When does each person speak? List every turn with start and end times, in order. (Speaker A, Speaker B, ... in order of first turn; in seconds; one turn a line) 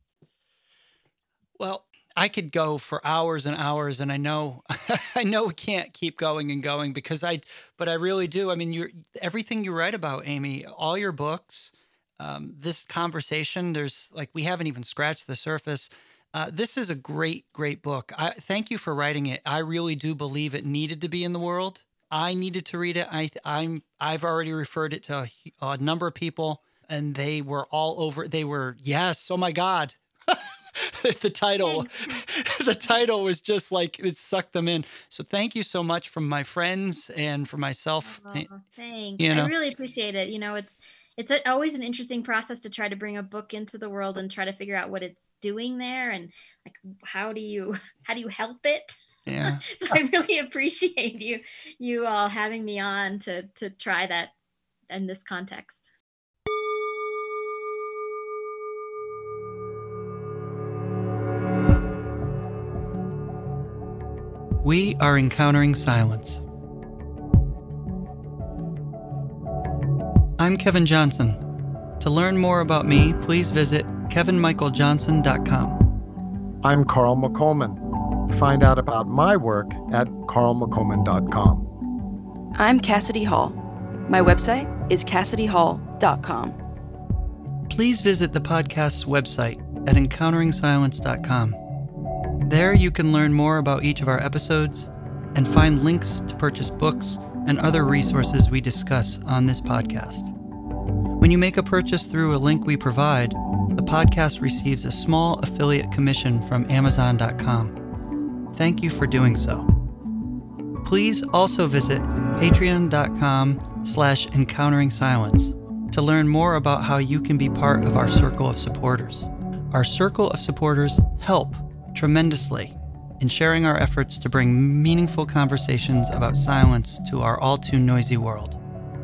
Speaker A: 1.6-38.5
Speaker B: 31.6-32.2
Speaker B: 38.1-54.3
Speaker A: 39.2-39.5
Speaker A: 49.3-49.6
Speaker B: 54.9-55.9
Speaker A: 64.6-66.4
Speaker A: 70.4-71.4
Speaker A: 72.0-75.8
Speaker C: 76.6-81.7
Speaker D: 82.5-86.6
Speaker A: 87.7-91.6
Speaker A: 92.4-100.3
Speaker A: 101.2-107.8
Speaker A: 108.5-109.7
Speaker A: 110.8-128.6